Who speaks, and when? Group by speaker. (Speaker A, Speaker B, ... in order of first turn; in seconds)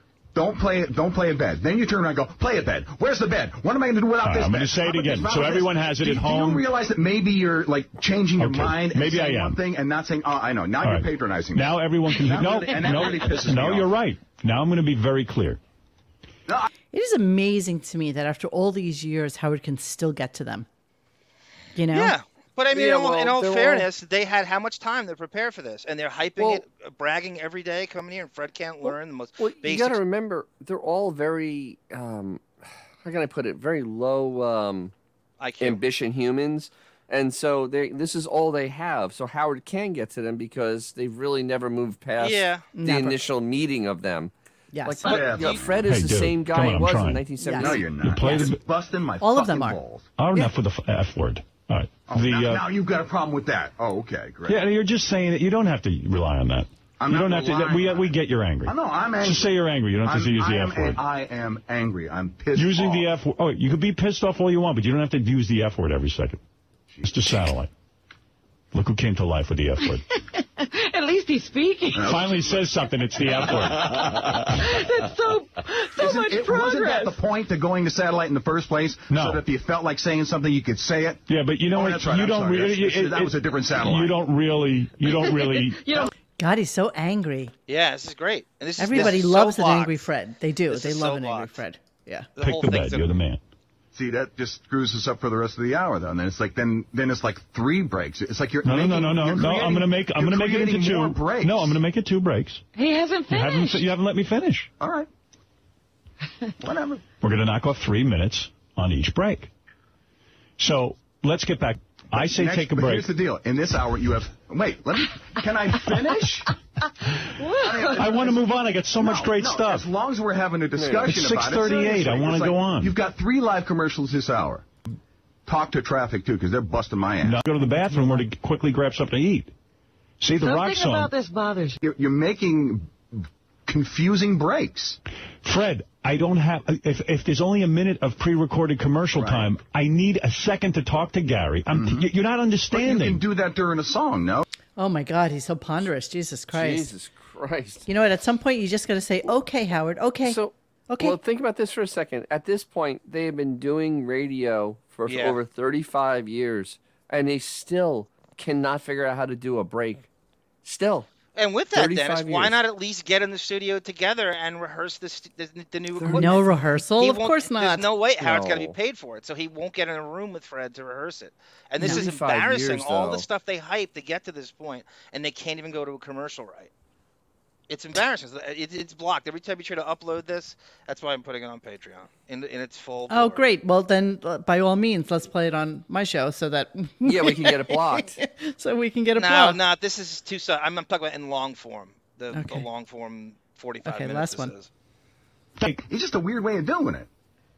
Speaker A: 0.3-13.9, 45.0-45.9, 47.6-50.1, 52.0-54.6, 57.0-63.1, 66.9-67.2, 71.9-72.7, 73.3-74.3, 76.0-84.2, 93.9-101.8, 104.8-105.1, 106.6-107.0, 112.1-116.5, 117.5-118.4, 119.0-124.7, 125.5-127.4, 131.8-135.0, 139.1-139.6, 141.7-142.1, 142.7-144.4, 195.9-197.1
Speaker B: 4.2-6.7, 8.4-9.6, 10.8-15.6, 45.8-47.2, 48.0-48.6, 50.2-52.6, 54.5-61.0, 62.5-66.4, 67.0-67.7, 68.7-70.0, 72.0-74.1, 79.1-79.4, 81.3-85.8, 92.4-93.4, 98.6-102.6, 103.3-104.7, 107.2-109.5, 110.6-113.1, 118.0-119.9, 121.1-123.0, 127.2-129.5, 130.2-131.1, 135.4-143.2, 195.6-195.8
Speaker C: 16.9-20.7, 21.7-22.1, 42.7-43.2, 44.7-45.2, 47.4-48.5, 49.2-49.8, 86.4-87.5, 88.8-92.3, 144.8-146.9, 147.8-151.2, 166.1-167.9, 183.1-189.6, 192.3-192.7, 193.8-194.5
Speaker D: 21.9-30.0, 35.4-35.8, 42.2-42.6, 45.0-45.6, 87.7-90.1, 90.7-91.6, 92.4-93.2, 155.1-155.4, 161.3-176.7, 177.7-183.4, 189.2-194.7
Speaker E: 22.7-23.9, 26.4-26.6, 28.8-34.9, 35.6-44.3, 44.8-47.9, 120.8-121.1, 146.5-147.9, 150.2-160.1, 160.6-161.1, 161.7-162.6, 165.9-166.4, 168.2-168.7, 171.8-173.2, 187.0-188.2
Speaker F: 70.6-72.1, 73.9-77.2, 85.1-86.1, 102.7-103.8, 117.4-118.2, 130.4-131.8